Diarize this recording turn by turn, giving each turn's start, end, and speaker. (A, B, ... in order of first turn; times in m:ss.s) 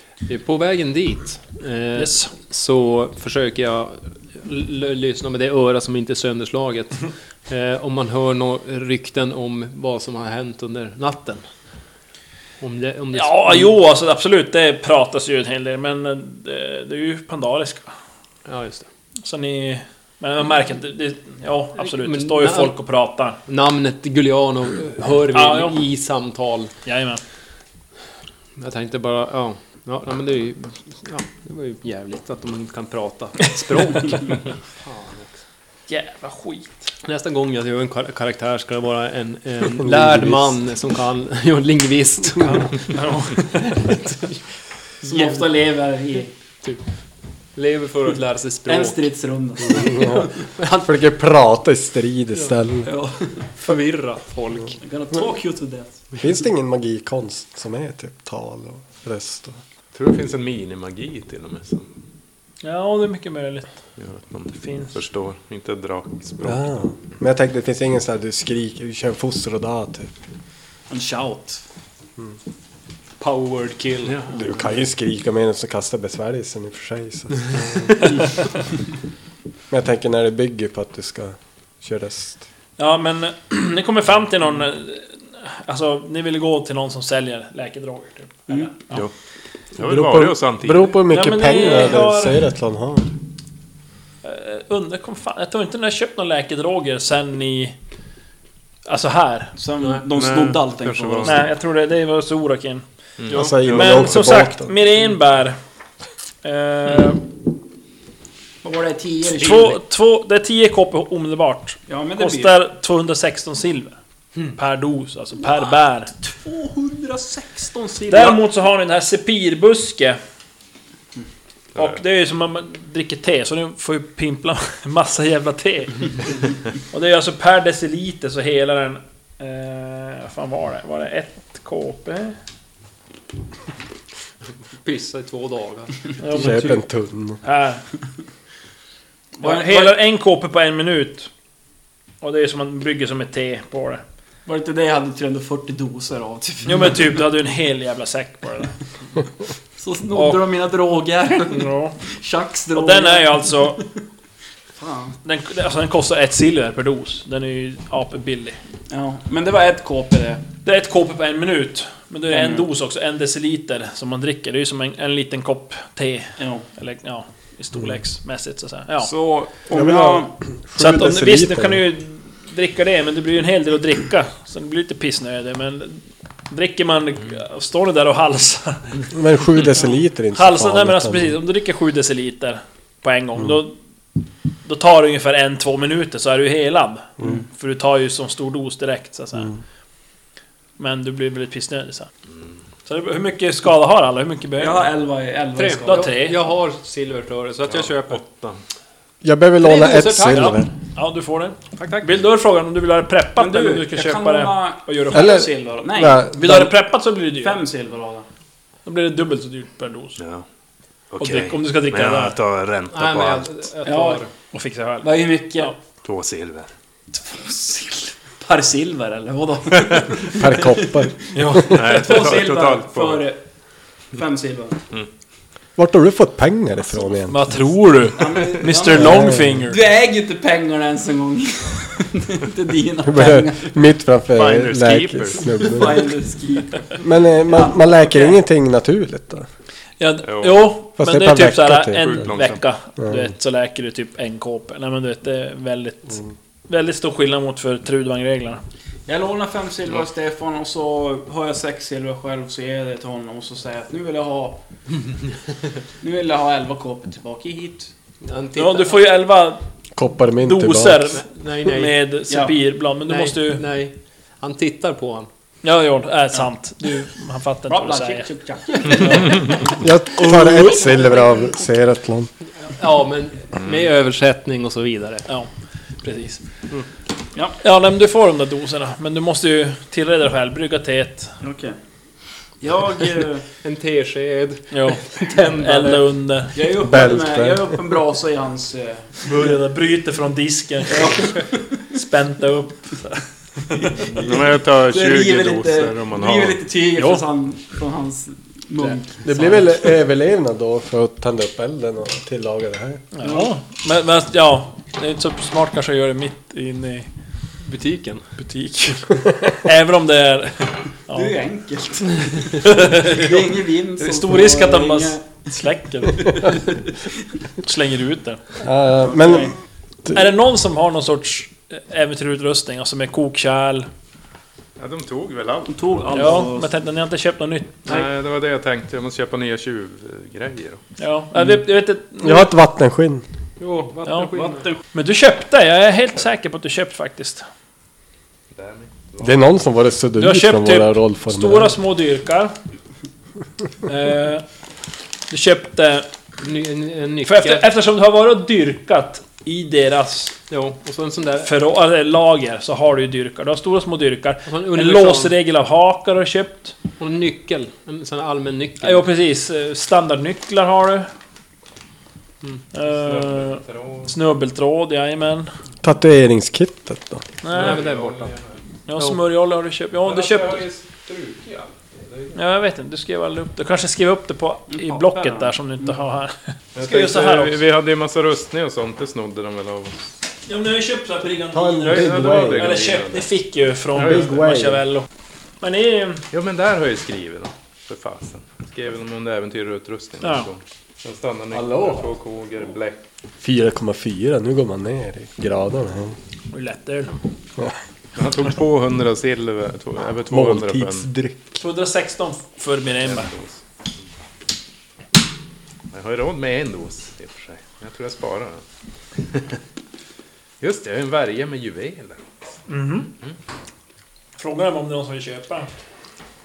0:00.2-0:11.4 A
0:02.0-0:02.3 B
0:12.6-0:13.7 A
0:13.1-0:17.9 B
0:18.4-0:18.9 A
0:19.2-0:23.4 B
0:21.8-0:22.8 A
0:23.4-0:26.7 A
0:25.3-0:25.8 B
0:26.8-0:27.2 B
0:28.6-0:35.4 A
0:35.9-0:36.9 B
0:37.0-0:42.9 A
0:39.8-0:40.5 C
0:42.4-0:44.0 B
0:43.5-0:44.4 A
0:45.0-0:45.4 A
0:45.0-0:46.3 D
0:47.6-0:49.0 A
0:48.7-0:50.5 D
0:49.7-0:52.9 C
0:50.6-0:50.9 A
0:52.8-0:53.5 D
0:53.6-0:54.8 A
0:54.8-0:56.0 D
0:56.2-0:59.6 C
0:59.9-1:01.9 E
1:02.6-1:03.7 B
1:04.0-1:06.7 E
1:04.6-1:04.9 B
1:06.4-1:10.1 C
1:10.9-1:11.6 D
1:13.2-1:14.2 A
1:14.0-1:14.5 E
1:14.3-1:18.1 C
1:19.7-1:22.4 C
1:22.8-1:29.0 B
1:29.8-1:31.0 E
1:29.8-1:33.1 C
1:31.1-1:32.4 B
1:34.2-1:37.8 B
1:38.8-1:39.5 B
1:39.6-1:41.4 D
1:39.8-1:40.0 A
1:40.1-1:41.4 E
1:41.2-1:42.8 B
1:43.2-1:44.1 E
1:43.3-1:44.8 C
1:43.6-1:45.6 B
1:46.4-1:47.2 B
1:48.6-1:49.8 D
1:49.3-1:54.0 B
1:51.9-1:52.5 D
1:54.5-1:56.1 B
1:56.2-1:58.4 D
1:58.1-2:00.2 B
2:01.7-2:02.0 E
2:01.7-2:12.4 B
2:14.8-2:16.1 A
2:16.2-2:16.8 B
2:16.3-2:17.4 C
2:17.4-2:17.8 B
2:19.4-2:20.0 D
2:19.4-2:21.3 B
2:22.2-2:24.0 B
2:24.4-2:27.2 D
2:26.6-2:28.7 B
2:29.8-2:33.9 D
2:30.1-2:30.4 B
2:31.5-2:32.0 B
2:32.7-2:33.8 B
2:34.8-2:35.2 D
2:35.2-2:38.6 B
2:38.9-2:40.4 D
2:40.6-2:49.1 B
2:42.3-2:42.7 D
2:46.4-2:46.6 D
2:49.0-2:50.3 D
2:49.7-2:51.8 C
2:50.8-3:03.8 B
2:59.1-3:01.4 C
3:04.6-3:09.5 B
3:10.8-3:12.1 B
3:12.8-3:14.9 B
3:14.6-3:16.1 D
3:15.5-3:18.2 A
3:15.8-3:16.4 B
3:17.6-3:18.6 E
3:19.2-3:20.7 C
3:19.6-3:20.6 A
3:20.3-3:25.4 B
3:21.8-3:22.1 A
3:23.4-3:26.3 D
3:25.1-3:26.7 C
3:26.3-3:27.6 B
3:27.4-3:28.2 D
3:28.8-3:30.2 B
3:30.2-3:30.4 E
3:31.1-3:33.6 E
3:31.2-3:32.4 B
3:32.9-3:34.3 A
3:33.8-3:34.2 D
3:34.5-3:35.7 B
3:35.0-3:35.7 D
3:36.0-3:36.7 E
3:37.1-3:43.4 D
3:40.3-3:41.8 C
3:41.3-3:41.8 B
3:41.7-3:43.2 E
3:44.1-3:44.8 D
3:45.8-3:47.4 C
3:47.3-3:49.8 B
3:48.1-3:53.8 D
3:48.9-3:49.6 C
3:53.0-3:56.1 C
3:54.4-3:55.6 E
3:55.6-3:58.4 D
3:57.0-3:59.5 C
4:00.0-4:08.6 B
4:00.2-4:00.7 E
4:01.0-4:02.3 C
4:02.0-4:02.6 E
4:03.0-4:03.3 C
4:09.1-4:14.6 D
4:16.0-4:17.9 D
4:18.2-4:19.0 A
4:18.6-4:19.6 B
4:20.0-4:21.2 C
4:20.4-4:23.6 B
4:21.1-4:22.0 A
4:22.3-4:22.5 D
4:23.0-4:25.3 A
4:25.6-4:28.3 B
4:27.7-4:29.8 D
4:29.0-4:29.4 B
4:29.8-4:32.3 C
4:32.8-4:35.2 A
4:36.0-4:36.4 B
4:37.6-4:41.3 B
4:41.4-4:41.8 D
4:42.6-4:43.4 D
4:43.6-4:46.1 A
4:44.7-4:46.6 B
4:46.5-4:49.3 D
4:46.8-4:47.8 C
4:49.2-4:54.0 B
4:50.9-4:51.7 D
4:54.1-4:56.6 E
4:54.2-4:59.3 D
4:57.0-4:57.2 B
4:59.2-5:03.0 C
5:03.1-5:07.1 B
5:07.6-5:08.3 A
5:08.4-5:11.3 B
5:11.1-5:15.3 D
5:12.6-5:13.3 B
5:14.0-5:16.6 B
5:17.6-5:18.4 B
5:18.6-5:19.5 C
5:19.0-5:19.5 D
5:20.1-5:23.9 B
5:24.8-5:26.4 E
5:25.7-5:26.7 D
5:26.1-5:28.0 B
5:27.8-5:30.8 E
5:31.0-5:32.5 B
5:32.2-5:33.2 C
5:33.6-5:34.7 A
5:34.0-5:34.3 B
5:34.2-5:34.8 D
5:34.9-5:37.4 B
5:38.5-5:39.4 E
5:39.2-5:41.7 C
5:40.2-5:42.5 B
5:43.8-5:44.4 B
5:45.3-5:46.1 B
5:46.4-5:47.7 A
5:47.2-5:50.4 B
5:50.5-5:51.5 A
5:51.4-5:56.8 B
5:54.4-5:55.4 A
5:57.0-5:59.1 A
5:58.8-6:01.1 B
6:02.7-6:05.5 B
6:02.8-6:04.1 E
6:05.8-6:07.2 C
6:07.4-6:07.8 B
6:07.5-6:08.3 A
6:07.5-6:08.6 E
6:08.9-6:10.6 B
6:10.0-6:12.3 E
6:12.3-6:17.6 B
6:14.7-6:15.5 D
6:16.7-6:20.1 E
6:20.5-6:25.1 B
6:21.5-6:22.8 C
6:21.8-6:23.3 E
6:24.0-6:24.8 C
6:25.6-6:26.2 B
6:26.3-6:33.0 E
6:30.2-6:30.5 B
6:31.5-6:32.0 C
6:33.4-6:36.2 C
6:36.5-6:37.2 B
6:38.1-6:41.1 E
6:40.3-6:41.6 C
6:41.6-6:43.3 B
6:43.0-6:43.6 E
6:45.9-6:48.6 E
6:49.3-6:49.6 E
6:50.6-6:52.4 E
6:52.7-6:53.1 B
6:54.4-6:55.7 B